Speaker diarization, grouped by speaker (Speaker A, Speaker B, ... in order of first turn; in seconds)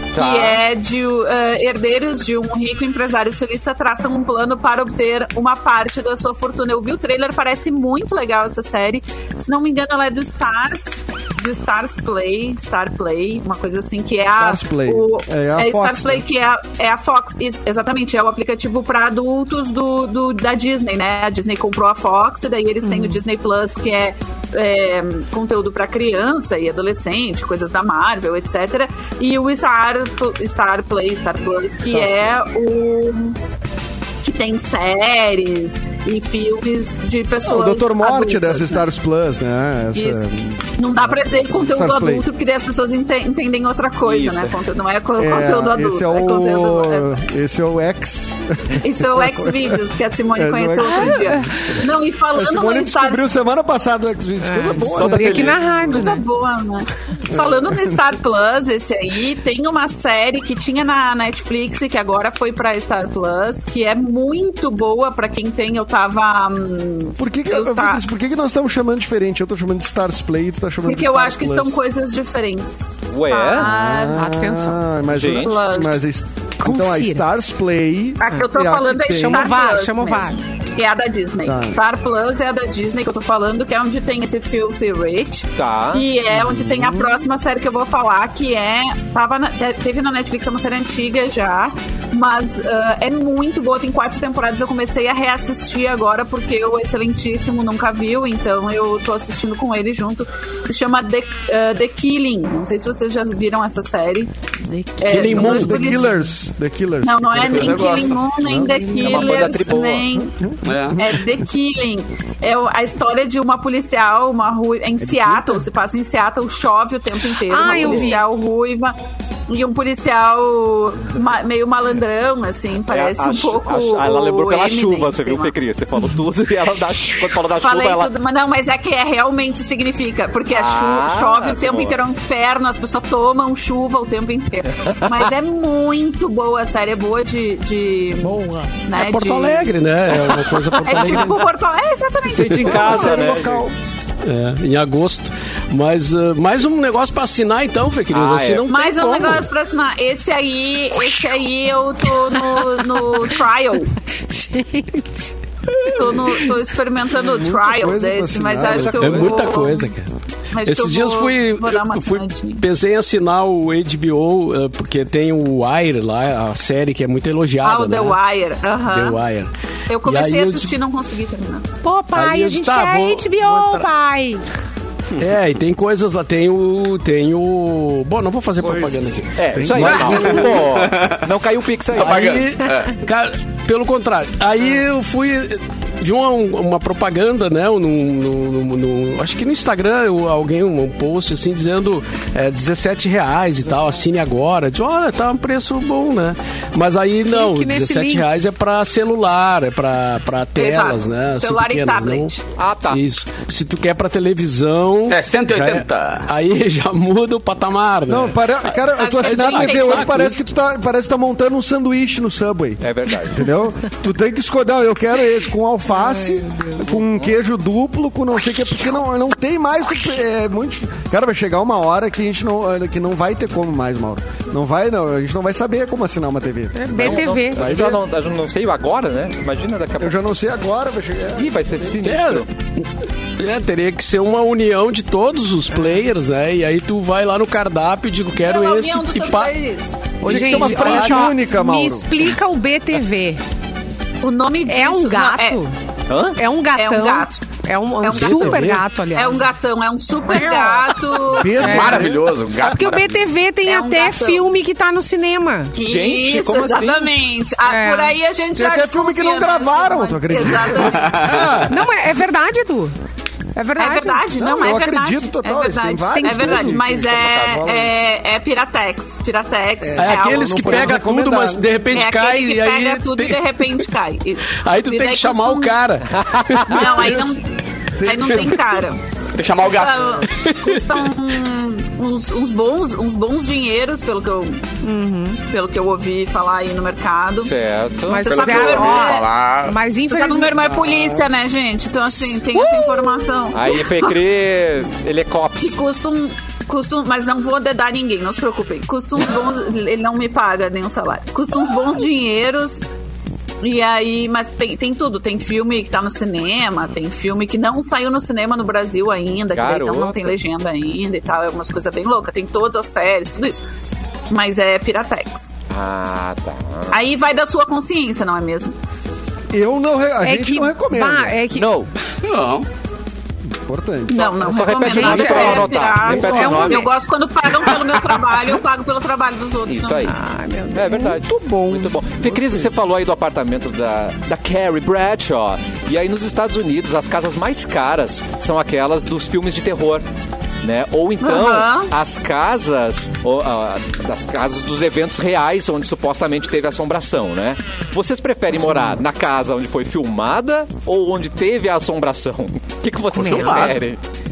Speaker A: 0.1-0.6, 44.0-44.5, 73.1-73.7, 75.1-75.5, 85.6-86.1, 109.0-110.2, 122.9-128.1, 130.5-132.0, 134.9-135.2, 142.2-143.7, 148.1-148.7, 158.6-159.5, 179.4-182.3, 202.6-203.0, 212.8-213.5, 216.9-217.3, 226.9-230.2, 231.3-232.5, 246.1-246.4, 255.8-257.1, 276.2-276.9, 287.4-288.8, 293.5-295.8, 309.5-310.3, 315.7-316.9, 321.5-321.9, 324.3-326.9, 329.8-330.1, 330.7-340.0, 340.6-354.0
Speaker B: 0.1-33.4, 34.2-38.9, 39.9-40.2, 40.8-47.2, 48.8-53.3, 55.9-68.0, 70.8-74.2, 75.3-76.0, 78.2-104.3, 105.0-106.2, 107.0-110.3, 110.9-118.9, 119.5-125.5, 127.6-139.8, 140.7-143.3, 148.7-153.9, 155.8-159.9, 160.5-162.6, 167.6-169.2, 169.9-171.6, 200.6-202.4, 208.9-210.2, 238.4-240.0, 244.2-245.6, 246.8-247.4, 248.0-251.7, 253.7-254.4, 255.7-261.4, 263.8-271.0, 271.9-275.8, 276.7-277.4, 278.0-279.0, 279.6-284.6, 285.5-287.5, 288.1-289.3, 290.1-294.1, 295.6-302.8, 303.6-313.6, 314.3-315.5, 316.9-318.7, 324.1-330.1, 341.2-341.9
Speaker C: 14.4-16.2, 37.4-40.7, 41.4-42.2, 45.2-49.8, 50.3-56.0, 57.3-58.0, 67.2-71.8, 73.5-79.5, 81.4-81.8, 86.3-87.2, 105.2-108.9, 110.1-110.6, 115.0-115.6, 138.3-138.6, 142.7-143.7, 157.2-159.2, 178.6-180.2, 208.1-228.0, 230.0-231.5, 240.2-242.1, 251.3-252.3, 258.6-261.0, 264.4-268.0, 269.8-271.6, 276.9-277.4, 278.0-278.6, 319.5-321.4, 323.6-326.6, 330.9-332.7, 348.5-349.0
Speaker D: 22.8-23.2, 50.8-51.7, 54.4-56.2, 74.2-74.8, 76.6-77.2, 79.1-80.4, 104.7-106.2, 108.5-109.3, 117.5-118.2, 152.4-152.8, 154.3-156.0, 171.8-174.4, 197.3-198.3, 215.9-216.8, 226.7-227.7, 240.2-243.4, 244.7-245.7, 246.3-249.5, 250.3-250.9, 251.6-252.1, 252.6-255.7, 257.7-258.1, 261.6-262.9, 263.6-264.2, 266.1-266.8, 284.8-285.4, 288.1-290.6, 292.3-293.2, 320.2-321.7, 324.9-326.9, 330.1-331.1, 353.1-353.7
Speaker E: 105.0-105.8, 138.9-141.4, 144.2-149.4, 159.0-160.1, 160.6-168.2, 168.9-169.5, 170.0-170.7, 172.1-173.9, 175.2-180.7, 181.9-202.3, 202.9-210.4, 232.0-232.8, 233.4-239.5, 240.3-241.3, 248.1-248.8, 261.2-261.8, 270.0-273.8, 274.6-277.1, 280.4-280.8
Speaker F: 107.4-108.3, 110.6-111.0, 179.8-181.2, 181.9-183.0, 205.1-206.3, 251.5-253.2, 261.0-261.6, 279.3-280.2, 288.3-289.7, 322.2-322.6, 329.7-330.0, 353.1-353.8